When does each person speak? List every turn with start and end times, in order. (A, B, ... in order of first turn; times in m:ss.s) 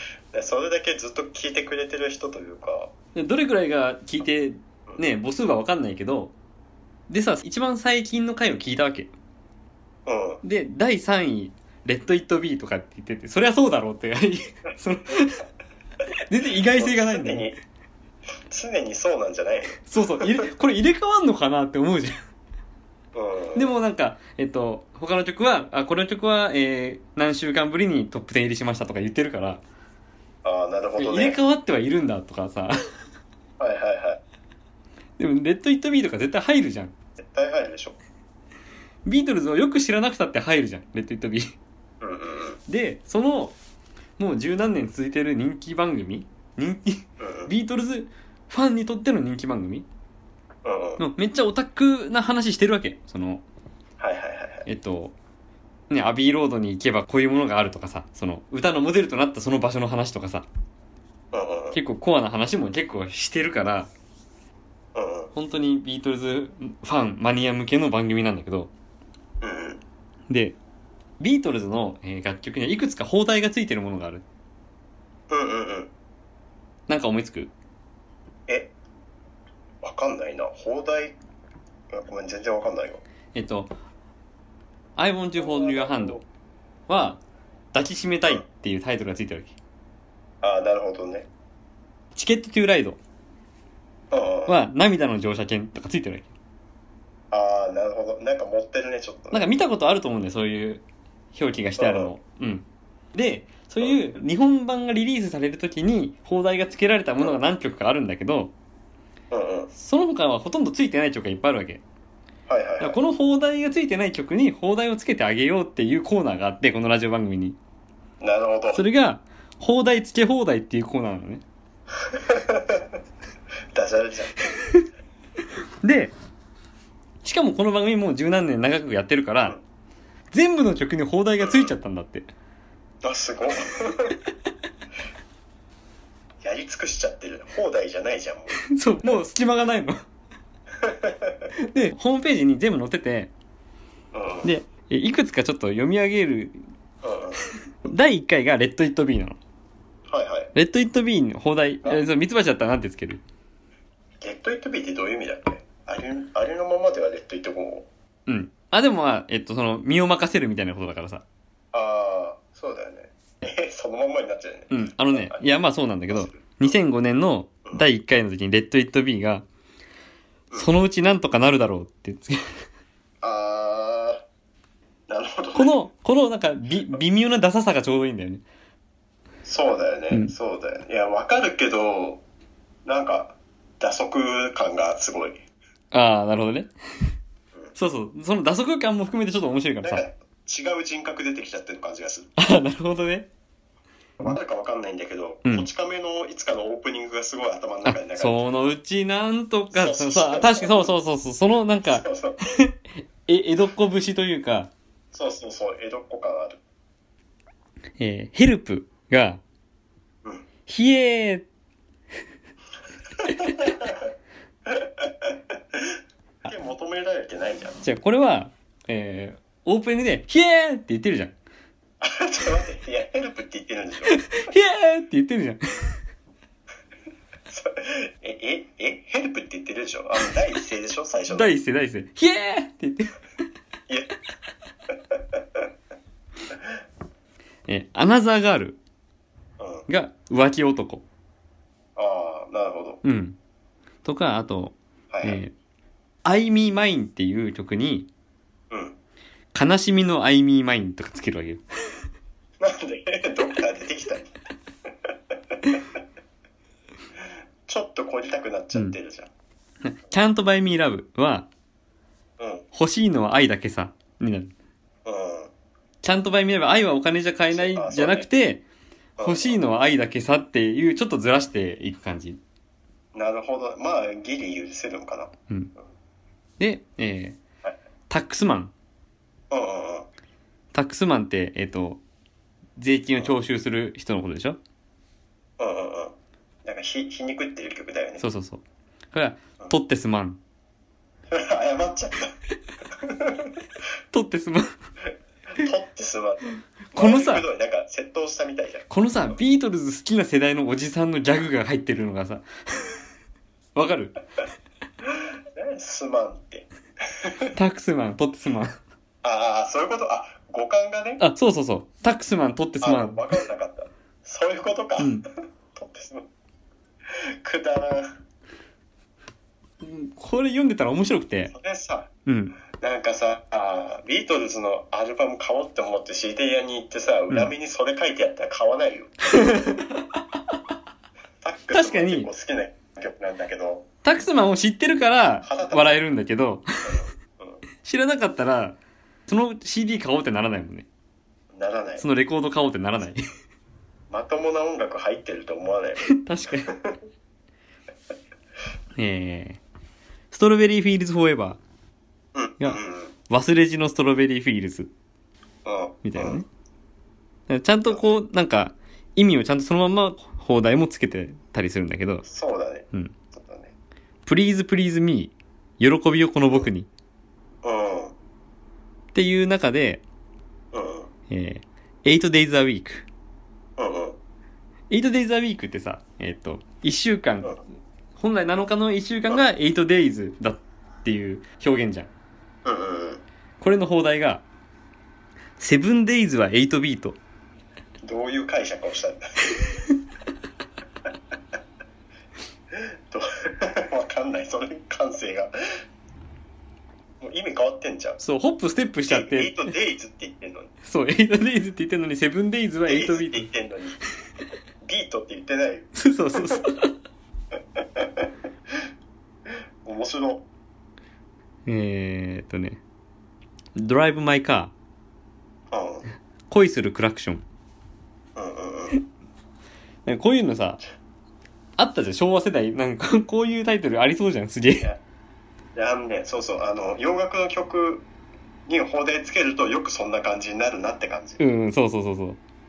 0:00.3-0:02.9 A
0:03.1-0:06.3 B
0:07.1-0:09.1 B
0:10.0-0:10.4 A
0:10.4-0:15.4 B
0:16.3-0:17.5 B
0:16.7-0:17.6 A
0:18.5-0:20.4 A
0:19.8-0:22.1 B
0:23.1-0:23.7 A
0:23.5-0:29.6 B
0:30.4-0:31.4 A
0:31.0-0:32.8 B
0:33.6-0:34.2 A
0:35.2-0:36.9 B
0:37.2-0:38.0 A
0:39.0-0:41.5 B
0:42.0-0:42.6 A
0:42.7-0:43.5 B
0:44.2-0:49.8 B
0:47.2-0:47.5 A
0:50.6-0:51.0 A
0:51.0-0:53.4 B
0:54.0-0:54.6 A
0:54.6-0:55.1 B
0:55.9-1:00.5 B
1:01.3-1:01.8 A
1:01.7-1:03.9 B
1:04.9-1:05.3 A
1:05.3-1:08.7 B
1:09.4-1:09.8 A
1:10.3-1:10.6 B
1:11.2-1:14.2 B
1:15.3-1:15.9 A
1:16.9-1:17.5 B
1:19.8-1:21.2 A
1:21.9-1:23.0 A
1:23.3-1:23.7 B
1:25.0-1:26.2 B
1:25.4-1:26.2 A
1:26.9-1:27.2 B
1:27.7-1:29.5 B
1:30.4-1:31.3 A
1:32.1-1:33.0 B
1:34.1-1:34.6 A
1:34.5-1:36.3 B
1:37.3-1:39.4 A
1:39.3-1:48.5 B
1:41.8-1:42.1 A
1:49.3-1:49.7 A
1:49.7-1:51.8 B
1:52.5-1:53.0 A
1:52.8-1:57.6 B
1:58.2-1:58.8 A
1:58.7-2:01.4 B
2:02.1-2:02.9 A
2:03.7-2:04.5 A
2:05.8-2:06.1 B
2:07.2-2:09.6 B
2:10.3-2:12.3 B
2:11.4-2:11.7 A
2:13.0-2:14.2 A
2:16.4-2:18.6 A
2:18.6-2:20.0 B
2:20.8-2:21.5 A
2:21.6-2:23.3 B
2:24.1-2:24.5 A
2:24.4-2:26.6 B
2:27.0-2:27.4 A
2:27.8-2:29.4 B
2:30.1-2:30.5 A
2:30.5-2:33.2 B
2:34.2-2:37.9 A
2:38.3-2:41.2 B
2:41.7-2:45.5 A
2:44.7-2:49.4 B
2:46.1-2:46.7 A
2:50.6-2:52.6 B
2:53.2-2:54.2 A
2:55.1-2:55.8 A
2:55.5-2:58.4 B
2:59.4-3:02.2 A
3:02.8-3:05.4 A
3:05.9-3:06.7 B
3:07.7-3:10.0 B
3:09.8-3:12.3 A
3:12.4-3:13.3 B
3:14.2-3:18.4 A
3:17.8-3:24.7 B
3:19.7-3:20.9 A
3:21.9-3:22.4 A
3:25.1-3:26.6 A
3:28.0-3:29.4 B
3:30.7-3:31.4 B
3:33.2-3:34.1 A
3:34.7-3:35.9 A
3:36.4-3:37.8 A
3:37.8-3:41.3 B
3:42.0-3:44.2 A
3:44.1-3:46.0 B
3:47.5-3:51.5 A
3:51.3-3:53.1 B
3:55.1-3:55.6 A
3:57.7-3:58.8 B
3:59.6-3:59.9 A
3:59.9-4:01.0 B
4:02.0-4:03.0 A
4:03.0-4:03.4 B
4:04.0-4:05.5 B
4:05.1-4:05.4 A
4:06.2-4:08.1 B
4:08.7-4:09.0 A
4:09.5-4:11.6 B
4:12.6-4:14.3 A
4:15.1-4:15.8 A
4:17.7-4:19.3 A
4:19.8-4:21.5 B
4:22.4-4:22.6 A
4:22.7-4:24.5 B
4:25.0-4:25.5 A
4:26.0-4:28.6 B
4:27.5-4:28.3 A
4:29.2-4:29.6 A
4:29.2-4:32.4 B
4:33.1-4:35.4 A
4:36.6-4:37.4 B
4:38.1-4:38.7 B
4:39.5-4:40.1 A
4:40.7-4:42.0 B
4:42.8-4:44.6 B
4:45.6-4:46.1 A
4:46.6-4:48.2 A
4:48.2-4:50.4 B
4:51.3-4:52.3 A
4:52.9-4:53.5 A
4:54.1-4:54.7 B
4:55.5-4:58.9 A
4:56.9-4:57.4 B
4:58.9-5:02.9 B
5:03.7-5:04.1 B
5:05.1-5:07.5 A
5:07.5-5:08.8 B
5:09.2-5:11.2 A
5:11.2-5:13.2 B
5:12.8-5:16.3 A
5:15.0-5:15.2 B
5:17.1-5:18.2 A
5:19.8-5:21.5 B
5:21.5-5:22.1 A
5:22.2-5:22.5 B
5:22.7-5:29.1 A
5:29.3-5:30.1 B
5:31.4-5:33.9 A
5:31.7-5:32.3 B
5:34.0-5:36.9 B
5:35.4-5:36.0 A
5:36.8-5:37.6 A
5:37.8-5:40.8 B
5:41.5-5:42.0 A
5:42.0-5:43.2 B
5:44.1-5:46.0 A
5:46.1-5:46.7 B
5:46.6-5:47.0 A
5:49.0-5:49.6 B
5:50.3-5:51.6 B
5:52.3-5:53.1 A
5:53.3-5:54.9 B
5:55.6-5:56.4 A
5:56.0-5:56.4 B
5:57.5-6:02.2 B
6:02.2-6:03.7 A
6:04.2-6:06.9 B
6:07.6-6:08.1 A
6:09.1-6:10.0 B
6:10.7-6:11.1 A
6:11.3-6:13.0 B
6:13.8-6:14.2 A
6:14.9-6:17.6 B
6:18.2-6:22.1 B
6:22.6-6:23.2 A
6:23.6-6:24.4 B
6:25.6-6:27.2 B
6:28.0-6:29.4 A
6:32.7-6:35.5 A
6:37.2-6:38.2 A
6:38.2-6:39.6 B
6:39.1-6:40.7 A
6:40.8-6:43.5 B
6:42.9-6:44.0 A
6:44.8-6:46.6 A
6:45.9-6:46.9 B
6:47.8-6:48.3 A
6:49.8-6:50.4 A
6:51.6-6:52.8 B
6:53.7-6:54.7 B
6:55.7-6:56.0 A
6:56.5-6:57.4 B
6:58.4-6:59.0 A
7:00.0-7:00.8 B
7:01.8-7:04.9 B
7:05.7-7:08.0 A
7:08.7-7:11.4 A
7:11.4-7:12.4 B